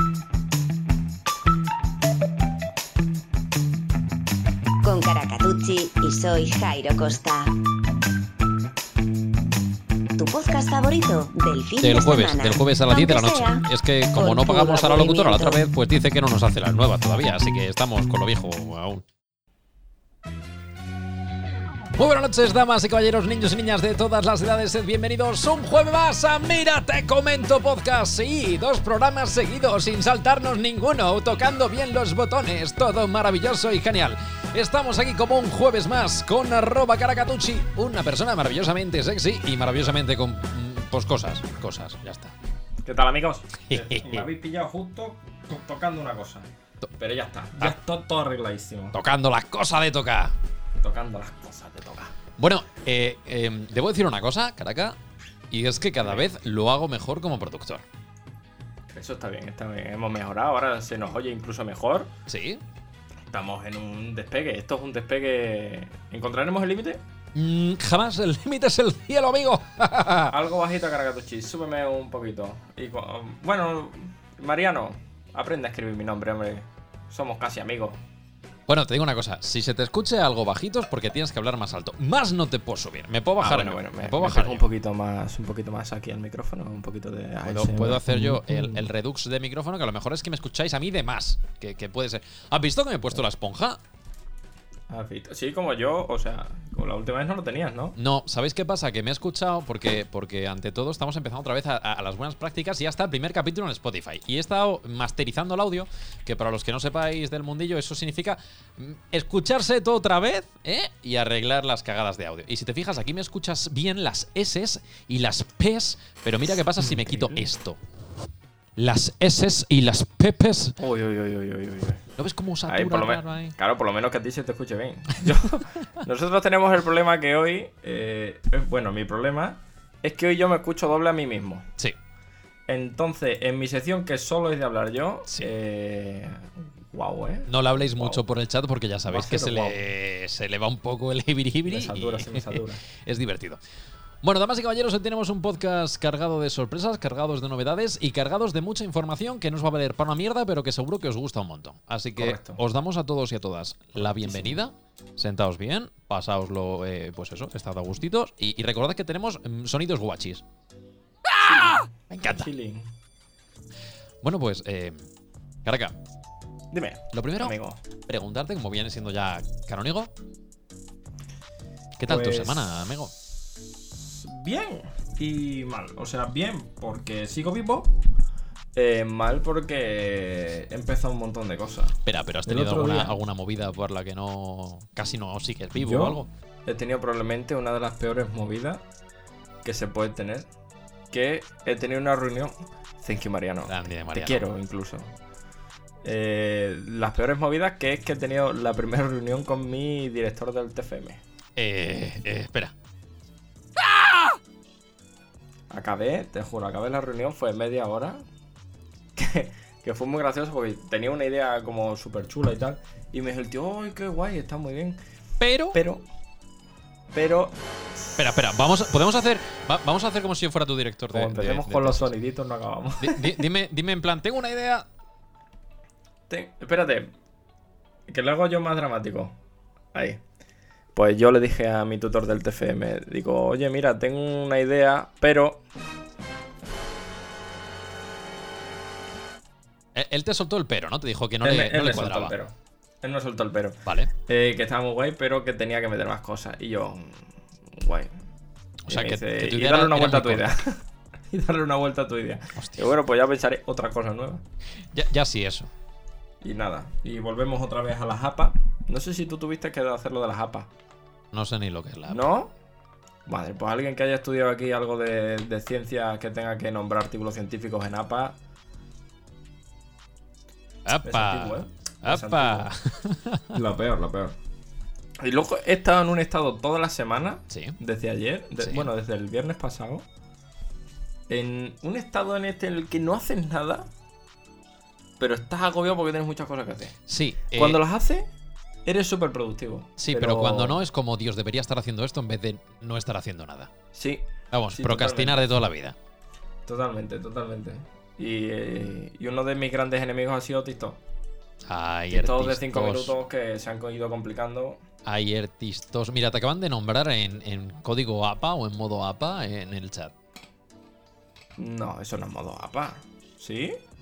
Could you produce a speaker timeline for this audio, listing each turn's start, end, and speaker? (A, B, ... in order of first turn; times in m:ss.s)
0:04.8-0:07.5 A
0:10.2-0:15.6 A
0:11.8-0:19.0 B
0:21.9-0:42.4 B
0:42.8-0:49.0 C
0:43.7-0:44.3 B
0:48.9-0:50.4 B
0:50.8-0:52.1 C
0:52.4-0:55.0 B
0:55.5-0:57.8 B
0:56.0-0:56.3 C
0:58.9-1:02.1 C
1:02.3-1:02.6 B
1:03.3-1:07.0 C
1:07.4-1:10.4 B
1:10.3-1:18.0 C
1:18.7-1:24.7 B
1:23.4-1:28.9 C
1:27.4-1:33.8 B
1:34.9-1:38.0 C
1:38.0-1:57.8 B
1:56.8-1:57.4 C
1:58.8-2:00.8 B
2:00.8-2:02.0 C
2:02.2-2:03.6 B
2:02.7-2:11.7 C
2:12.7-2:18.2 C
2:17.5-2:23.6 B
2:19.1-2:19.8 C
2:21.7-2:22.8 C
2:24.2-2:40.4 B
2:32.2-2:32.6 C
2:34.0-2:34.6 C
2:41.4-2:42.9 C
2:42.1-2:42.5 B
2:44.2-2:45.0 B
2:45.6-2:46.0 B
2:46.7-2:47.8 C
2:47.1-2:50.1 B
2:52.0-2:53.1 B
2:52.0-2:52.7 C
2:54.0-2:57.9 C
2:58.8-3:03.2 C
3:02.0-3:06.3 B
3:05.8-3:08.8 C
3:09.6-3:10.5 C
3:11.1-3:15.1 C
3:13.7-3:14.4 B
3:16.0-3:21.2 C
3:21.6-3:22.7 B
3:23.8-3:24.3 B
3:25.7-3:28.2 C
3:29.2-3:35.0 C
3:35.4-3:35.8 B
3:35.7-3:36.0 C
3:37.1-3:37.6 C
3:38.2-3:42.1 B
3:41.1-3:43.4 C
3:43.0-3:44.9 B
3:46.3-3:47.1 C
3:48.1-3:49.4 C
3:49.9-3:50.2 C
3:51.0-3:55.6 C
4:00.0-4:02.4 B
4:01.4-4:07.2 C
4:03.8-4:04.1 B
4:07.7-4:08.1 C
4:08.9-4:10.5 B
4:08.9-4:10.8 C
4:11.3-4:14.4 C
4:12.6-4:13.0 B
4:14.9-4:15.7 B
4:16.4-4:20.7 C
4:21.3-4:22.2 B
4:22.1-4:22.5 C
4:23.3-4:28.4 C
4:30.8-4:33.6 B
4:31.0-4:32.7 C
4:33.5-4:34.4 C
4:35.2-4:40.0 C
4:37.5-4:37.8 B
4:38.6-4:38.9 B
4:41.3-4:43.9 C
4:45.2-4:47.0 C
4:47.1-4:47.8 B
4:47.5-4:48.3 C
4:48.9-4:50.8 C
4:50.0-4:53.7 B
4:53.9-4:55.4 C
4:54.5-4:56.0 B
4:56.6-5:01.0 C
5:01.7-5:03.2 B
5:02.1-5:04.8 C
5:05.0-5:10.1 B
5:11.6-5:13.8 C